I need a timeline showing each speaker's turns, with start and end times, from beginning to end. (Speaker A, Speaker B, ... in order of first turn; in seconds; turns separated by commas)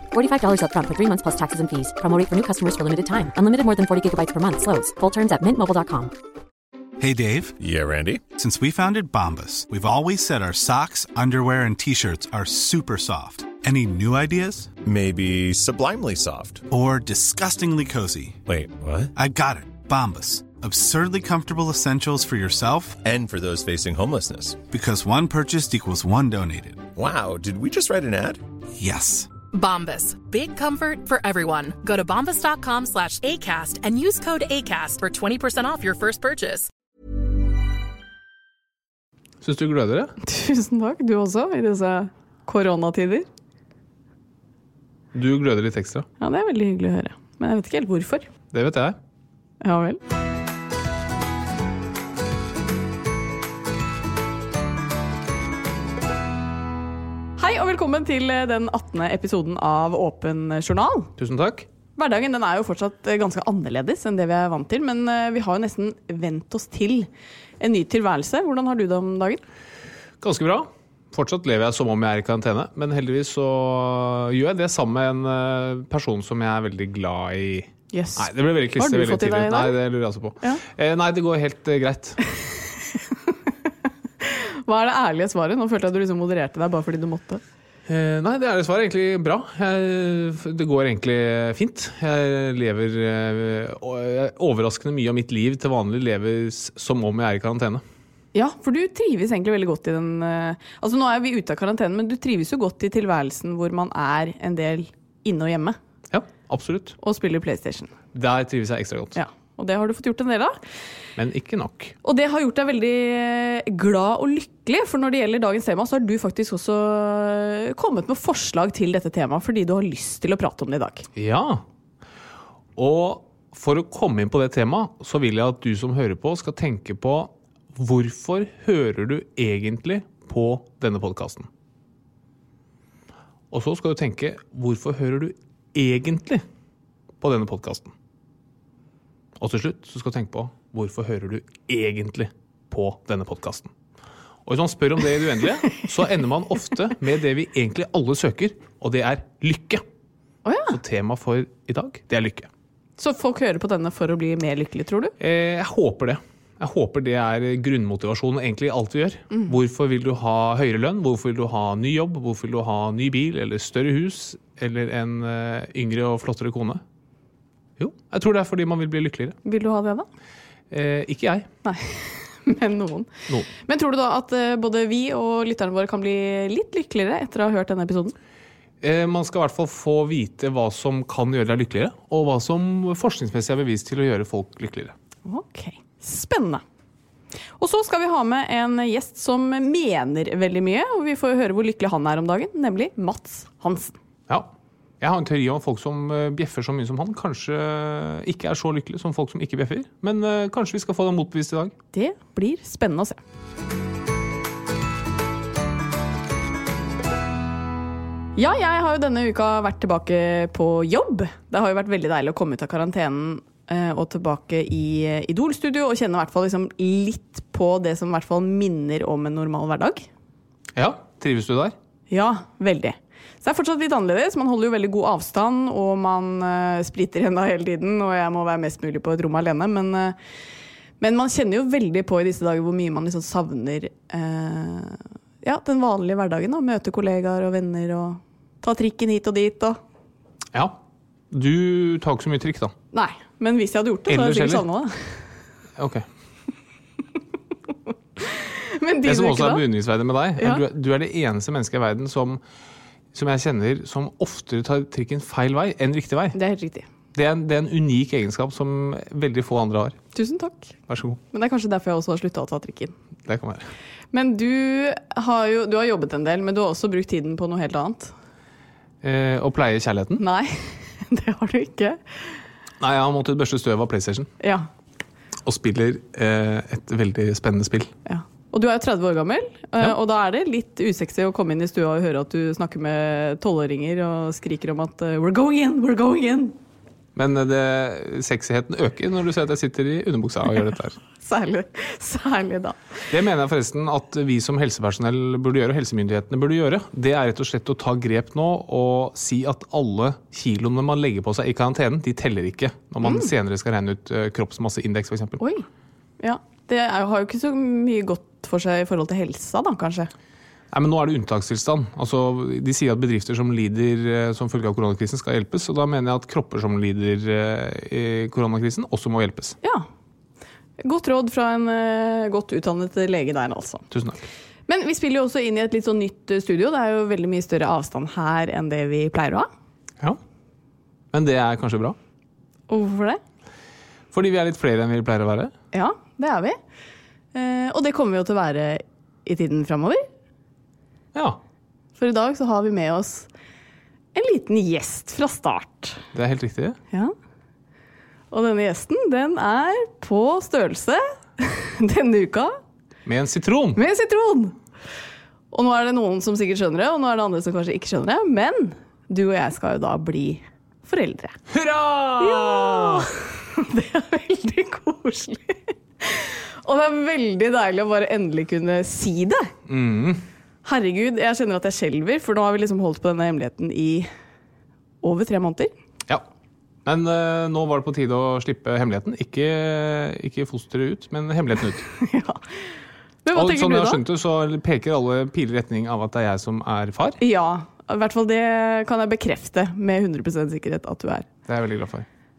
Speaker A: 0.1-6.1, Speaker B: 7.0-7.6, Speaker C: 7.6-8.2, Speaker B: 8.4-14.7, Speaker C: 14.8-16.6, Speaker B: 16.7-18.4, Speaker C: 18.5-19.1, Speaker B: 19.1-23.0, Speaker C: 23.0-24.6, Speaker B: 24.7-26.9, Speaker C: 27.0-28.4, Speaker B: 28.8-29.3, Speaker D: 29.5-36.7, Speaker E: 39.4-40.1, Speaker F: 40.2-43.3, Speaker E: 45.1-46.1, Speaker F: 46.2-48.3, Speaker E: 48.5-49.0, Speaker F: 49.6-50.0, Speaker F: 57.4-61.1, Speaker E: 61.2-61.7, Speaker F: 62.0-67.1, Speaker F: 67.6-69.4, Speaker E: 70.2-82.2, Speaker F: 77.9-79.8, Speaker F: 84.2-87.4, Speaker E: 87.9-97.8, Speaker F: 98.3-105.8, Speaker E: 106.1-107.0, Speaker F: 107.0-107.9, Speaker E: 108.1-109.2, Speaker F: 109.2-110.6, Speaker E: 111.2-111.9, Speaker F: 112.0-121.1, Speaker E: 121.2-121.6, Speaker E: 122.8-131.5, Speaker E: 133.5-136.5, Speaker E: 137.2-137.9, Speaker E: 139.4-143.7, Speaker E: 144.5-149.8, Speaker F: 150.4-150.8, Speaker E: 150.7-152.5, Speaker F: 153.0-155.2, Speaker E: 155.2-166.8, Speaker E: 167.8-169.4, Speaker F: 169.4-170.1, Speaker E: 170.7-171.5, Speaker F: 171.7-178.2, Speaker E: 178.8-184.9, Speaker F: 185.3-186.6, Speaker F: 187.6-194.0, Speaker E: 194.3-201.8, Speaker F: 201.9-203.2, Speaker F: 208.4-220.1, Speaker E: 220.8-221.8, Speaker F: 222.1-230.2, Speaker F: 231.0-239.8, Speaker E: 241.3-242.7, Speaker F: 242.9-245.2, Speaker E: 244.1-244.7, Speaker E: 245.8-246.1, Speaker F: 248.2-249.7, Speaker E: 249.1-252.4, Speaker F: 250.4-250.6, Speaker E: 253.1-256.4, Speaker F: 256.3-256.9, Speaker E: 257.1-260.0, Speaker F: 260.1-260.7, Speaker E: 260.9-261.2, Speaker F: 261.3-262.9, Speaker E: 263.3-263.7, Speaker F: 264.1-268.1, Speaker E: 269.0-270.2, Speaker F: 270.2-272.2, Speaker E: 272.8-274.3, Speaker F: 274.4-274.7, Speaker E: 275.4-277.9, Speaker F: 278.1-286.6, Speaker E: 287.1-291.0, Speaker F: 291.2-293.0, Speaker E: 293.1-305.4, Speaker F: 303.0-303.3, Speaker F: 305.4-305.6, Speaker F: 306.2-310.1, Speaker E: 310.7-319.6, Speaker F: 319.6-319.9, Speaker F: 320.8-323.8, Speaker E: 323.9-324.2, Speaker F: 324.7-329.5, Speaker E: 331.1-332.0, Speaker F: 332.7-333.2, Speaker E: 334.1-335.5, Speaker F: 335.7-336.6, Speaker F: 337.3-340.1, Speaker E: 341.1-341.4, Speaker F: 342.0-343.3, Speaker F: 344.1-346.0, Speaker E: 346.1-346.8, Speaker F: 348.3-352.6, Speaker E: 353.1-353.8, Speaker F: 353.8-354.6, Speaker F: 355.5-361.4, Speaker E: 361.5-363.1, Speaker F: 362.2-369.5, Speaker E: 369.7-370.2, Speaker F: 370.6-374.1, Speaker F: 375.0-375.7, Speaker E: 376.9-381.9, Speaker F: 382.0-382.4, Speaker F: 383.2-384.0, Speaker E: 383.3-387.2, Speaker F: 387.2-391.3, Speaker E: 391.5-392.1